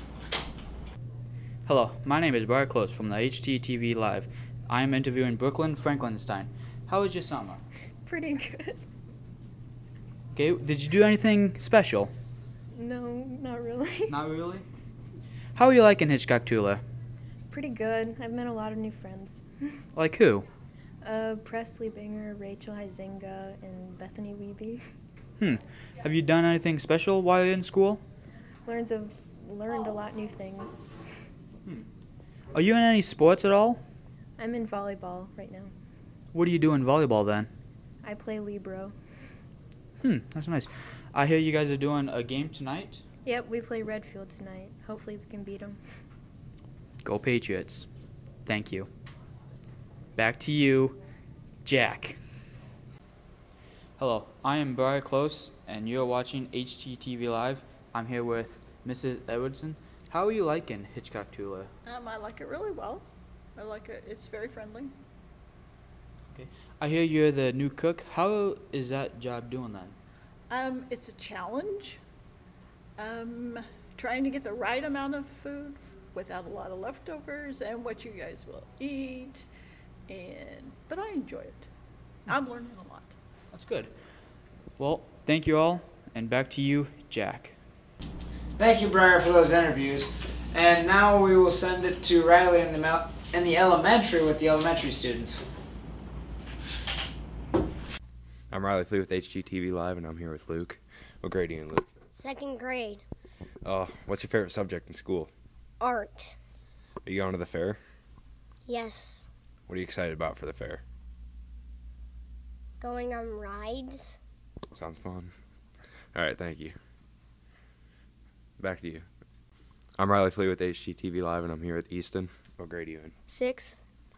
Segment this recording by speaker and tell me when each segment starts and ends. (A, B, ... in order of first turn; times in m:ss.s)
0:01.6-0:07.6 A
0:08.0-0:08.8 B
0:10.3-0:12.1 A
0:12.8-0:14.1 B
0:14.1-0:14.6 A
0:15.5-0:16.8 A
0:17.5-0:19.5 B
0:19.9-0:20.5 A
0:21.0-0:24.8 B
0:25.4-0:28.0 A
0:28.6-0:30.9 B
0:32.5-0:33.8 A
0:34.4-0:35.7 B
0:36.3-0:37.5 A
0:38.0-0:38.9 B
0:40.0-0:43.0 A
0:43.2-0:45.8 B
0:47.0-0:47.9 A
0:48.4-0:48.9 A
0:50.2-0:51.0 A
0:51.6-0:52.2 A
0:54.0-1:01.7 A
1:01.8-1:03.0 C
1:03.6-1:04.9 C
1:06.3-1:10.0 A
1:10.5-1:12.0 C
1:13.0-1:19.4 C
1:20.1-1:21.7 C
1:22.3-1:23.1 C
1:23.5-1:23.9 A
1:24.8-1:27.6 A
1:28.6-1:35.4 D
1:38.5-1:41.9 E
1:42.1-1:43.0 F
1:43.6-1:45.3 E
1:45.8-1:46.3 F
1:47.0-1:47.8 E
1:48.6-1:49.3 F
1:49.7-1:50.8 E
1:52.8-1:54.2 F
1:54.7-1:55.3 E
1:56.1-1:56.8 E
1:58.6-1:59.0 E
2:00.0-2:03.1 E
2:03.3-2:03.8 F